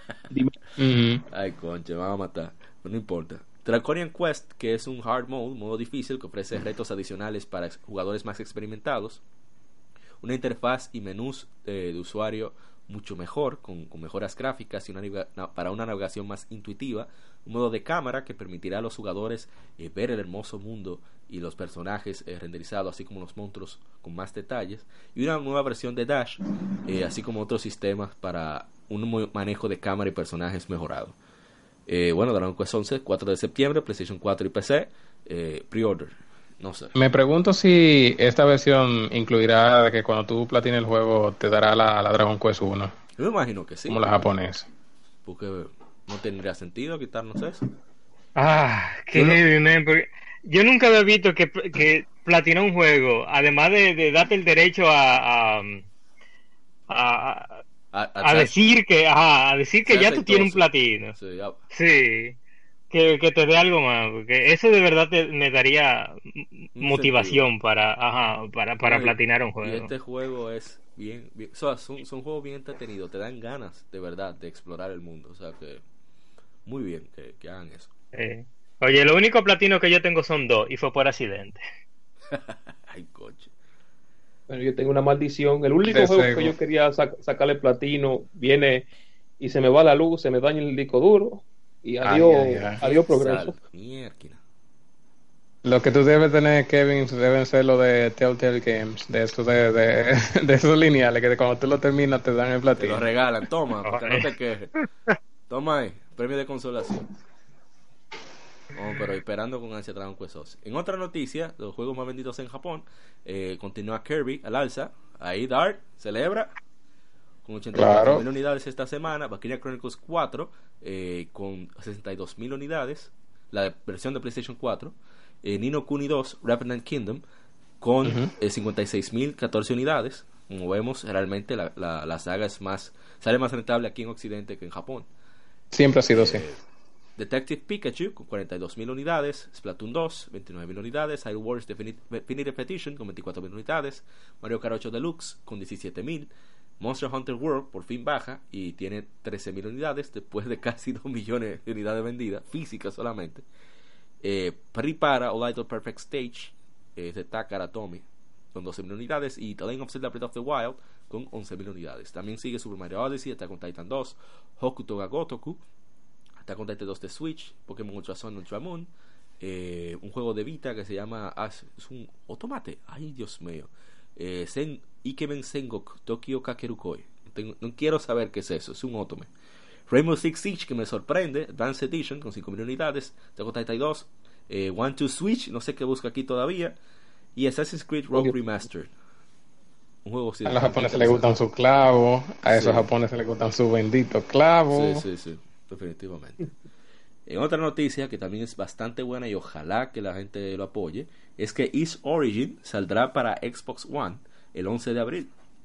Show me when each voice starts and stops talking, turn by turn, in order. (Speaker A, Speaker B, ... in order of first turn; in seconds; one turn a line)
Speaker A: 0.8-1.2
Speaker B: 1.3-9.2
Speaker B: 10.2-31.2
Speaker B: 31.9-36.9
Speaker A: 36.9-42.9
Speaker B: 43.2-44.0
Speaker A: 43.9-44.7
Speaker B: 45.2-47.6
Speaker C: 48.4-55.8
Speaker B: 49.1-49.4
Speaker C: 56.9-57.6
Speaker B: 57.9-58.5
Speaker C: 58.2-61.1
Speaker B: 59.8-61.6
Speaker C: 61.7-62.4
Speaker C: 62.9-69.9
Speaker B: 66.8-67.4
Speaker B: 68.8-75.8
Speaker B: 76.7-77.9
Speaker C: 78.1-81.6
Speaker B: 82.3-83.5
Speaker D: 84.5-88.9
Speaker A: 85.8-86.5
Speaker D: 89.4-93.5
Speaker A: 92.0-92.8
Speaker B: 92.8-94.4
Speaker A: 95.6-103.0
Speaker B: 102.8-104.7
Speaker C: 103.8-104.8
Speaker B: 105.5-107.1
Speaker B: 108.7-116.5
Speaker B: 117.4-127.2
Speaker A: 117.7-118.2
Speaker B: 127.8-135.1
Speaker A: 128.0-128.3
Speaker A: 135.7-136.4
Speaker B: 136.1-136.6
Speaker B: 137.2-146.3
Speaker B: 146.8-153.4
Speaker B: 154.2-165.6
Speaker B: 166.4-168.9
Speaker B: 169.4-179.3
Speaker B: 179.9-186.7
Speaker B: 187.3-188.9
Speaker B: 190.0-191.3
Speaker A: 190.4-195.0
Speaker B: 192.4-192.9
Speaker B: 194.7-196.4
Speaker B: 197.3-205.3